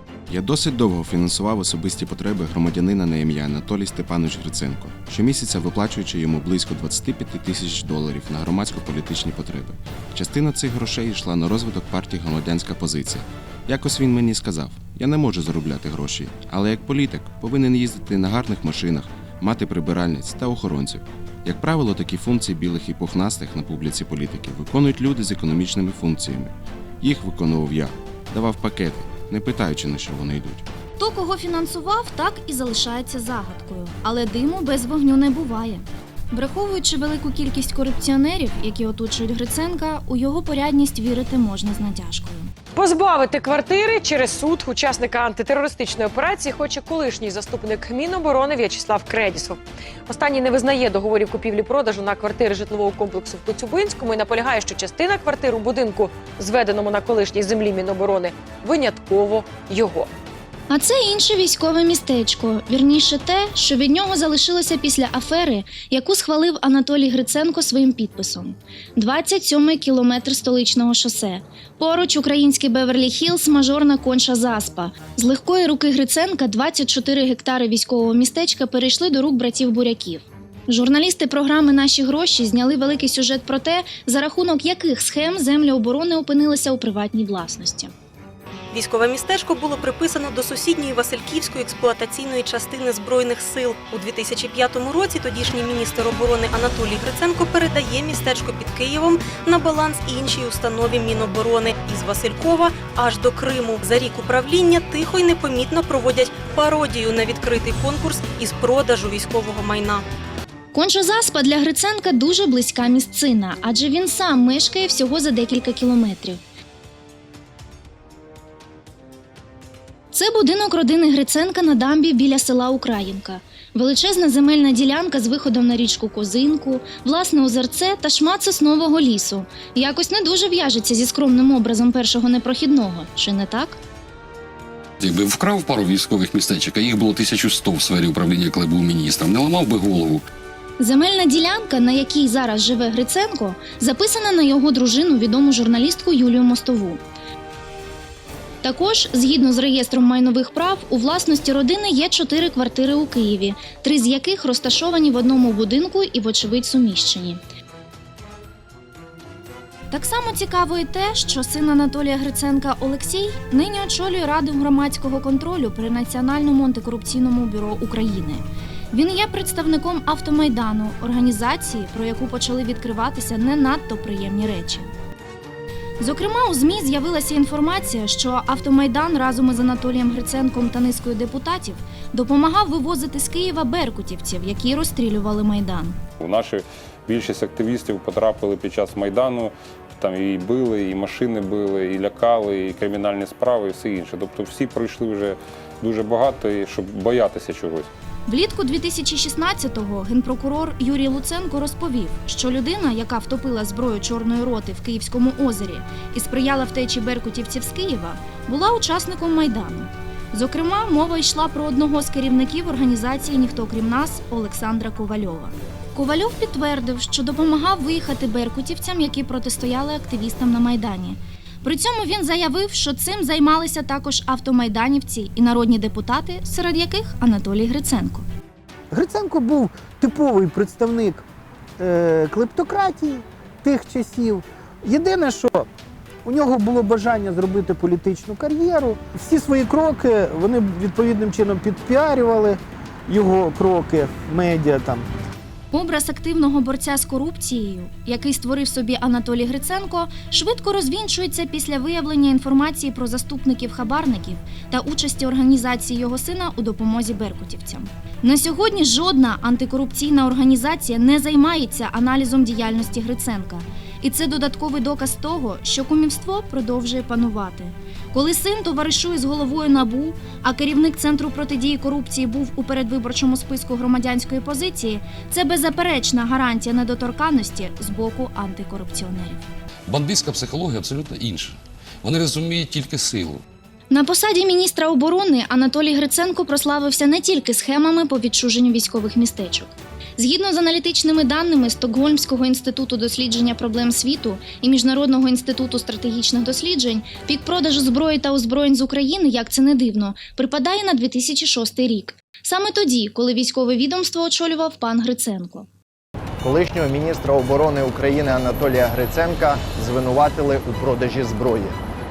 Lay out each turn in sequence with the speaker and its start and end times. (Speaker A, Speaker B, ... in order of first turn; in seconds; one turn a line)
Speaker A: 0.3-30.6
Speaker B: 31.0-42.5
Speaker C: 42.7-60.1
Speaker B: 60.7-87.9
Speaker D: 88.7-110.0
Speaker B: 110.7-116.4
Speaker B: 120.1-133.8
Speaker E: 135.0-140.2
Speaker B: 140.8-147.0
Speaker B: 148.6-157.4
Speaker B: 159.9-174.9
Speaker B: 176.0-186.0
Speaker F: 186.2-197.9
Speaker B: 198.3-228.2
Speaker G: 228.9-231.2
Speaker G: 231.8-235.7
Speaker G: 236.2-245.1
Speaker B: 245.7-279.4
Speaker E: 279.9-283.4
Speaker B: 283.9-305.7
Speaker H: 306.4-311.7